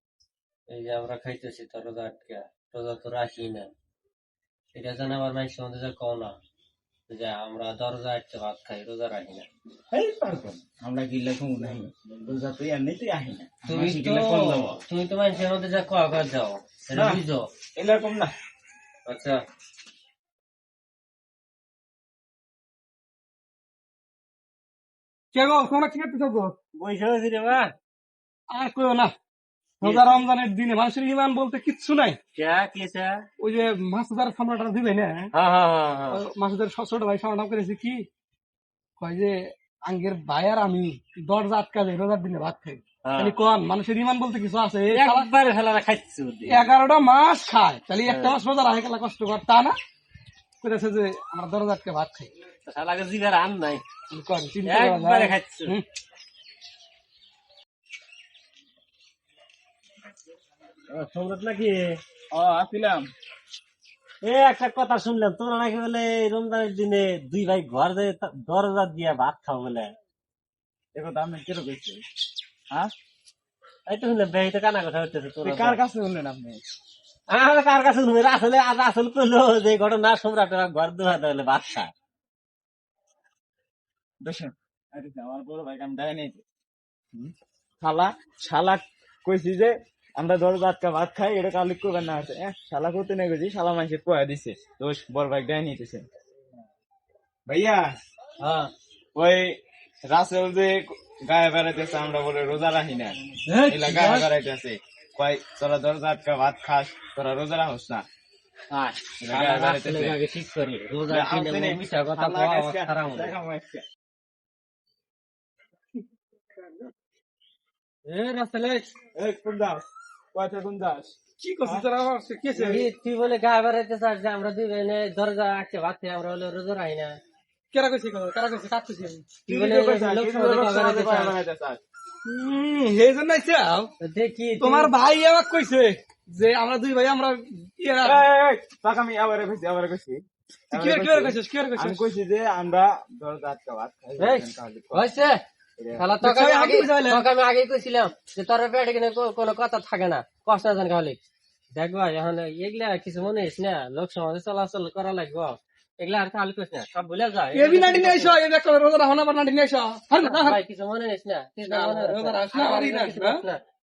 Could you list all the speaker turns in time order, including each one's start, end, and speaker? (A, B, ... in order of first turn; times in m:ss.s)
0:00.7-0:03.7 A
0:04.7-0:06.4 A
0:07.1-0:09.5 A
0:09.9-0:14.8 B
0:13.7-0:17.5 A
0:16.9-0:17.2 B
0:17.8-0:18.3 B
0:19.1-0:19.4 A
0:25.3-0:26.5 C
0:26.8-0:27.7 A
0:28.5-0:29.1 C
0:29.8-0:32.2 C
0:29.8-0:30.2 A
0:32.4-0:33.2 A
0:33.4-0:35.3 C
0:35.3-0:36.2 A
0:36.1-0:38.0 C
0:39.0-0:45.3 C
0:43.0-0:43.4 A
0:44.9-0:46.7 A
0:46.4-0:49.7 C
0:48.0-0:48.3 A
0:50.6-0:52.3 C
0:52.7-0:53.8 A
0:54.1-0:55.8 C
0:54.6-0:55.7 A
1:00.9-1:01.9 A
1:02.3-1:03.1 B
1:04.2-1:09.9 A
1:10.9-1:12.0 B
1:13.9-1:15.8 A
1:15.4-1:16.6 B
1:17.3-1:21.9 A
1:24.2-1:26.4 B
1:27.1-1:36.0 B
1:37.5-1:37.9 B
1:38.4-1:38.7 A
1:39.2-1:48.0 B
1:43.5-1:44.2 A
1:48.7-1:53.3 A
1:49.2-1:50.2 B
1:51.1-1:53.8 B
1:58.1-1:58.9 A
1:59.1-2:01.8 B
2:01.4-2:02.9 C
2:02.6-2:07.1 A
2:07.7-2:09.3 C
2:09.4-2:11.8 B
2:09.5-2:11.4 A
2:12.2-2:13.9 C
2:14.0-2:14.9 A
2:14.6-2:18.2 C
2:18.0-2:25.1 B
2:20.7-2:22.0 C
2:24.2-2:25.4 A
2:25.8-2:26.1 B
2:26.0-2:31.2 A
2:26.2-2:27.2 C
2:31.7-2:38.4 A
2:37.5-2:40.6 C
2:40.2-2:43.6 A
2:41.7-2:43.4 C